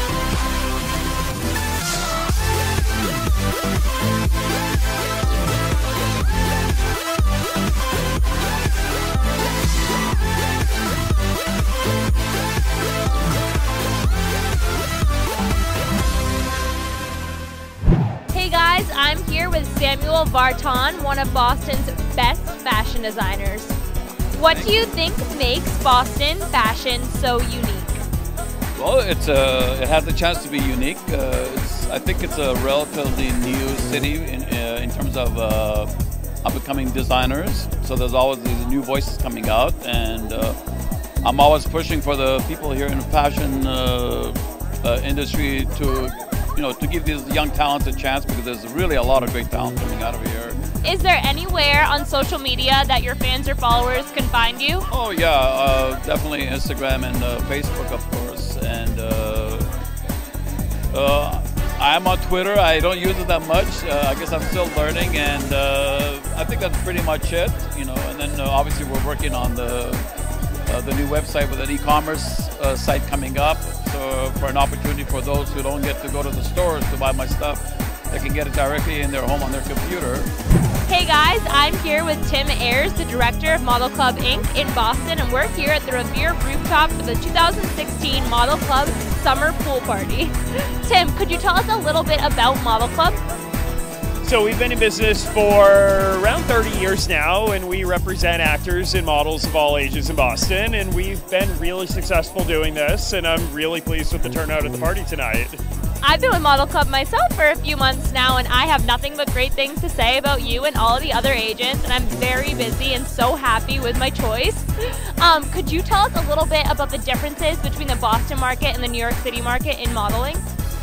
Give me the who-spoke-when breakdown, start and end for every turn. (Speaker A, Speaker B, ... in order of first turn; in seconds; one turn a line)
Speaker A: 18.3-23.7
Speaker A: 24.3-28.0
Speaker B: 24.5-24.8
Speaker B: 28.8-35.9
Speaker B: 36.4-40.6
Speaker B: 41.2-50.6
Speaker A: 50.8-54.9
Speaker B: 54.9-59.7
Speaker B: 60.9-70.0
Speaker B: 70.7-80.3
Speaker A: 80.9-93.2
Speaker C: 94.2-105.6
Speaker A: 106.0-120.4